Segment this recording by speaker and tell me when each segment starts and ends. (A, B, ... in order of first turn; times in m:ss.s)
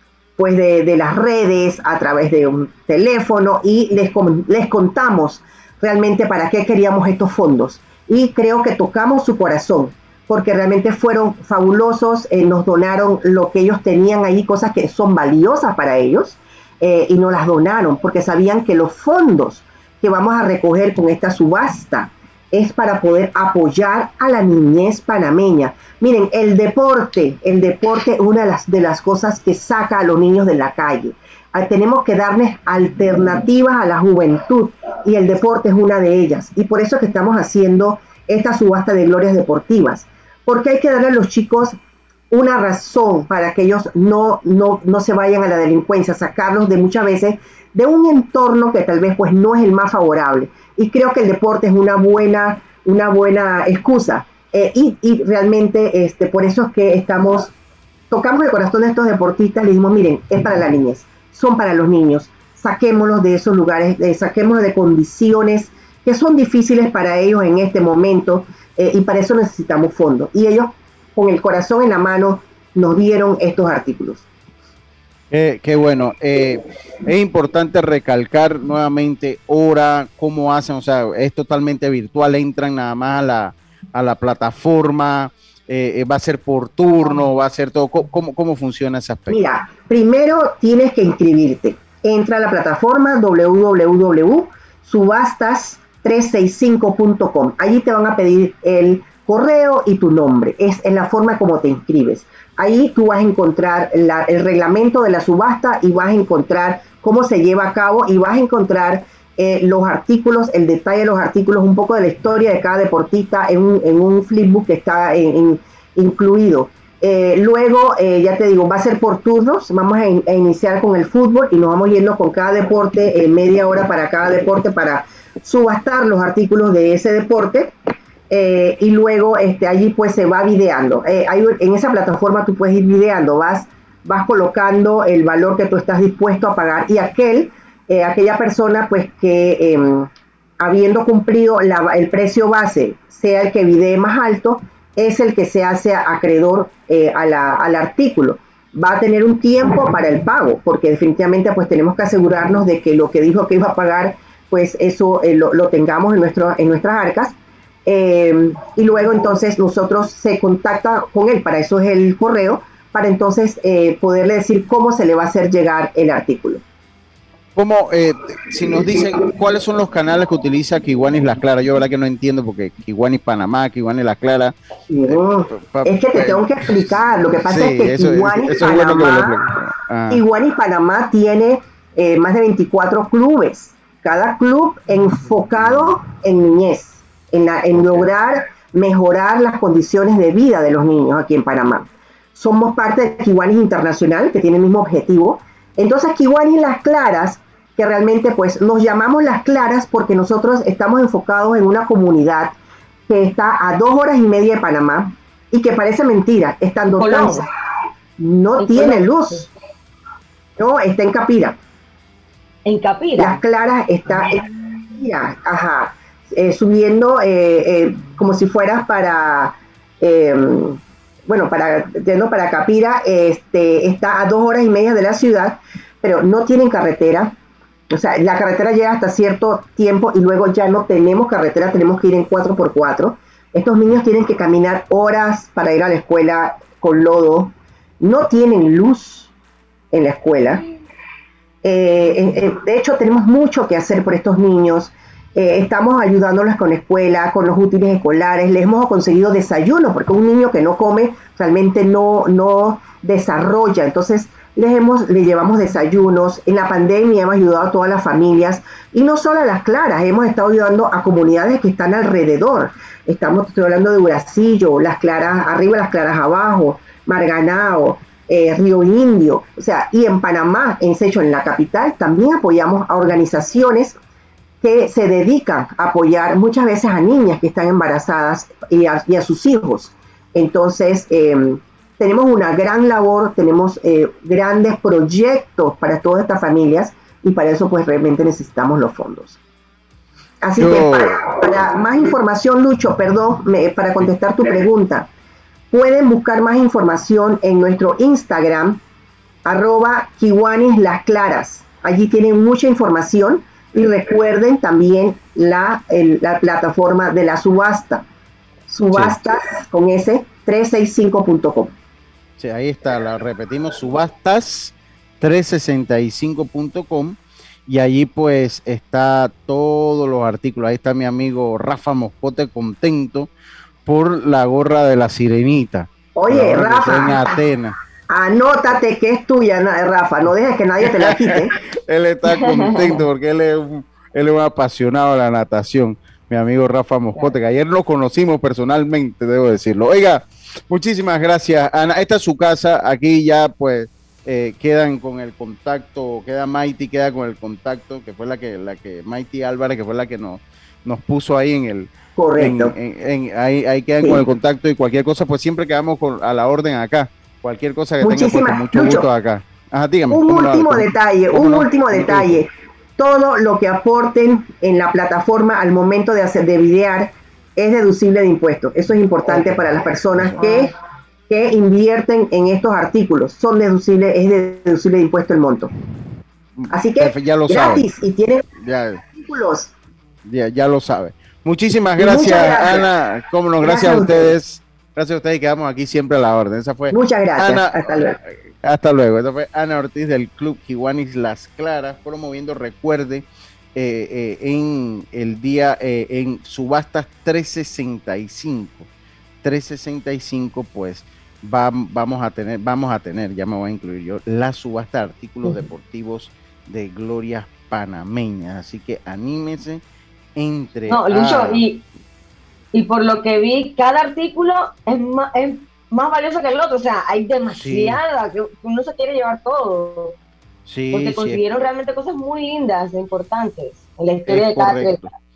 0:00.4-0:41.8 A
0:42.3-0:57.5 A
0:58.1-1:14.2 A
1:15.3-1:29.4 B
1:29.3-2:07.7 A
2:08.3-2:20.1 A
2:20.6-2:37.4 A
2:37.9-2:46.6 A
2:47.6-2:54.6 B
2:48.7-2:49.0 A
2:54.9-2:59.4 A
2:55.1-2:56.9 B
2:57.5-3:00.2 B
3:00.1-3:22.6 A
3:07.7-3:08.1 B
3:23.1-3:27.5 A
3:27.0-3:27.4 C
3:28.2-3:29.5 A
3:28.6-3:29.5 C
3:30.6-3:31.6 A
3:32.7-3:33.4 C
3:33.2-3:47.4 A
3:47.9-3:59.3 A
3:59.9-4:00.6 A
4:01.6-4:34.0 A
4:34.6-4:49.4 A
4:50.4-4:55.1 A
4:50.6-4:51.2 B
4:55.7-4:58.8 A
4:59.4-5:08.1 A
5:08.7-5:11.7 A
5:12.4-5:23.3 B
5:23.9-5:27.8 B
5:26.2-5:27.4 A
5:28.1-5:31.5 A
5:31.0-6:02.4 B
5:32.4-5:33.0 C
5:52.2-5:52.8 A
5:58.0-5:59.1 A
6:00.1-6:10.7 A
6:09.3-6:09.6 B
6:10.2-6:10.5 B
6:11.3-6:15.7 A
6:16.6-6:17.9 B
6:16.7-6:18.5 A
6:18.5-6:19.0 B
6:19.0-6:19.7 A
6:20.2-6:38.9 B
6:22.0-6:22.9 A
6:23.6-6:24.4 A
6:26.9-6:28.2 A
6:39.4-6:49.8 B
6:50.4-6:51.7 B
6:50.9-6:51.8 C
6:52.7-7:00.2 C
6:57.5-6:58.0 B
7:00.7-7:01.4 B
7:00.9-7:05.0 C
7:04.3-7:05.1 B